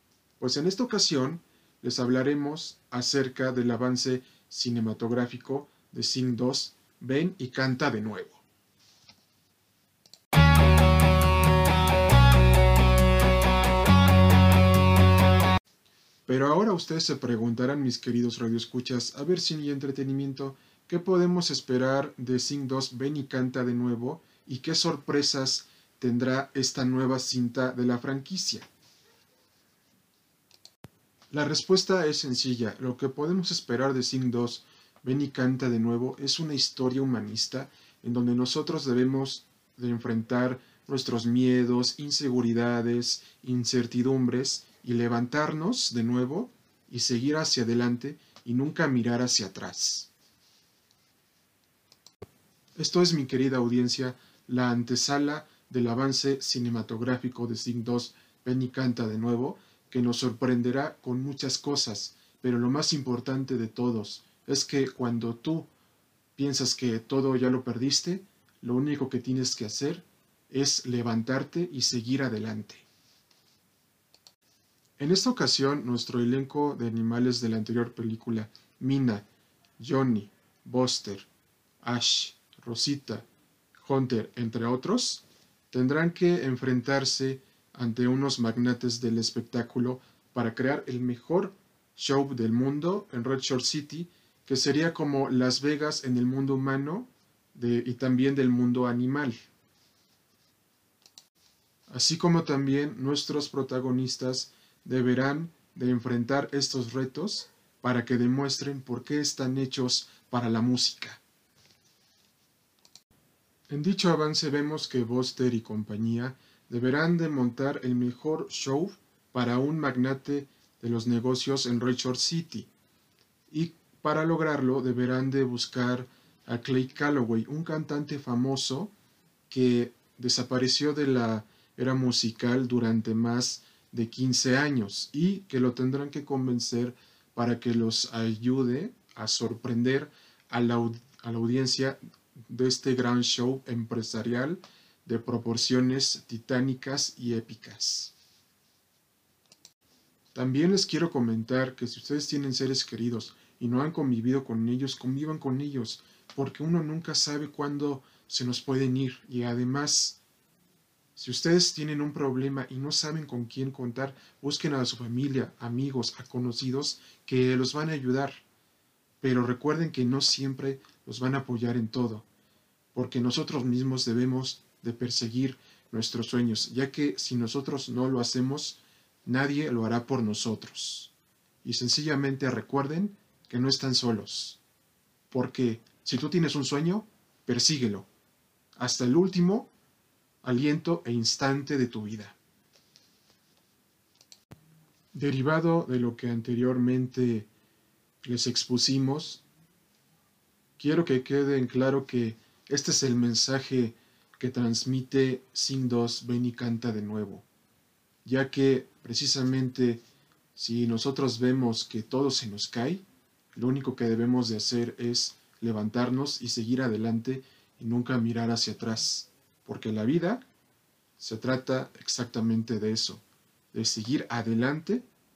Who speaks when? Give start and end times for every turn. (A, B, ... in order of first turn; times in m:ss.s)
0:00.4-0:08.4 A
0:16.3-0:28.7 A
0:31.3-0:50.1 A
0:52.8-1:05.7 A
1:06.4-1:12.9 A
1:15.0-1:19.3 A
1:19.8-1:21.3 A
1:21.8-1:23.3 A
1:23.8-1:39.5 A
1:41.9-1:51.2 A
1:53.7-2:02.7 A
2:03.5-2:08.9 A
2:09.5-2:28.1 A
2:30.3-2:40.2 A
2:41.2-2:48.4 A
2:49.2-2:52.3 A
2:52.9-3:01.1 A
3:01.6-3:04.6 A
3:05.3-3:08.1 A
3:08.8-3:09.7 A
3:10.4-3:12.4 A
3:15.1-3:17.5 A
3:18.2-3:19.4 A
3:20.8-3:27.5 A
3:28.2-3:30.0 A
3:30.6-3:40.4 A
3:41.2-3:45.0 A